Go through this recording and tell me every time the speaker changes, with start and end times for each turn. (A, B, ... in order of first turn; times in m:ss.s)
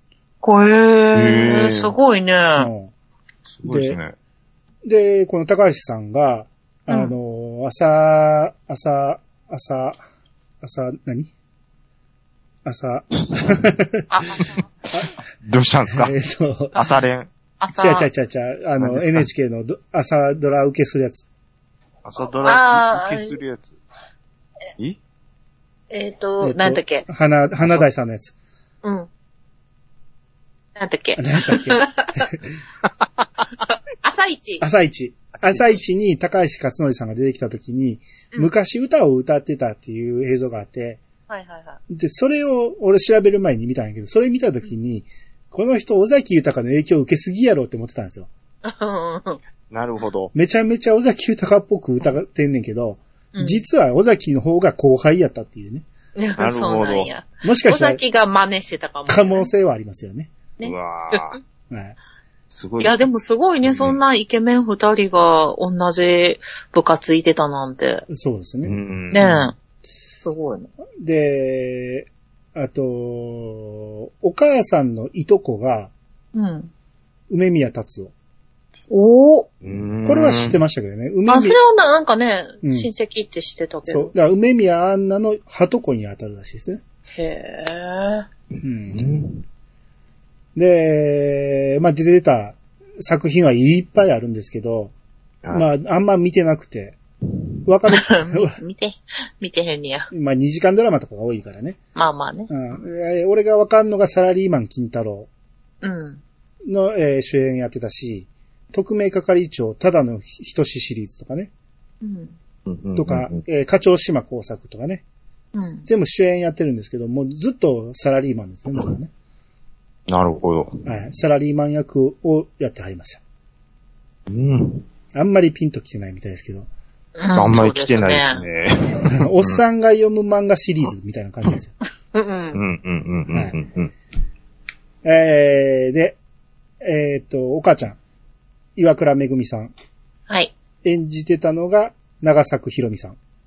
0:00.4-0:02.7 A
0:01.1-0:01.9 B
0:02.6-0:02.9 C
0:03.5-0:04.1 B
0:03.7-0:04.0 C
0:04.8-0:10.0 C
0:06.9-0:07.1 A
0:10.6-0:11.3 C
0:12.6-0:14.1 C
0:14.1-0:14.6 A
0:15.4-0:16.1 B
0:15.9-0:16.7 C
0:16.7-0:17.3 B
0:17.6-0:18.1 A
0:17.7-0:21.2 C
0:18.8-0:19.3 B
0:22.0-0:23.8 B
0:22.4-0:23.4 A
0:25.9-0:27.0 A
0:26.4-0:28.3 C
0:27.6-0:27.8 B
0:28.8-0:29.1 A
0:30.8-0:32.3 A
0:31.2-0:32.4 C
0:33.7-0:34.6 A
0:34.6-0:41.0 C
0:35.3-0:35.8 B
0:41.3-0:41.8 A
0:41.9-0:48.3 C
0:48.6-0:49.4 A
0:49.7-0:50.3 B
0:50.3-0:55.8 C
0:53.3-0:53.6 A
0:56.2-0:59.5 A
0:56.4-0:57.1 B
0:57.4-0:58.0 C
0:59.1-1:00.3 C
1:00.6-1:01.4 A
1:00.6-1:01.4 B
1:01.7-1:02.0 C
1:02.5-1:03.0 B
1:02.8-1:08.0 A
1:03.6-1:04.0 B
1:08.1-1:08.8 C
1:08.6-1:09.4 B
1:09.1-1:09.5 A
1:10.2-1:10.7 A
1:11.0-1:15.9 C
1:16.3-1:16.7 A
1:17.3-1:18.1 C
1:18.9-1:19.5 A
1:19.6-1:20.6 B
1:20.0-1:21.6 C
1:21.3-1:24.1 A
1:22.6-1:22.9 C
1:23.9-1:26.8 C
1:27.1-1:28.2 A
1:28.6-1:29.2 C
1:28.9-1:29.4 B
1:30.6-1:34.9 C
1:35.5-1:37.0 C
1:37.6-1:38.6 C
1:37.9-1:40.1 A
1:40.1-1:41.8 C
1:41.9-1:42.5 A
1:42.5-1:45.3 C
1:45.8-1:46.2 A
1:46.7-1:51.5 C
1:52.0-1:52.4 A
1:52.7-1:53.4 B
1:53.0-1:55.0 C
1:55.5-1:55.8 A
1:55.8-1:59.1 C
2:00.1-2:00.8 B
2:00.8-2:03.2 C
2:04.3-2:04.8 B
2:05.1-2:06.7 C
2:07.2-2:08.4 A
2:07.3-2:09.6 B
2:09.1-2:11.7 C
2:12.1-2:12.6 A
2:12.5-2:13.9 B
2:15.0-2:16.2 C
2:16.8-2:18.0 C
2:18.8-2:19.7 C
2:20.8-2:23.2 C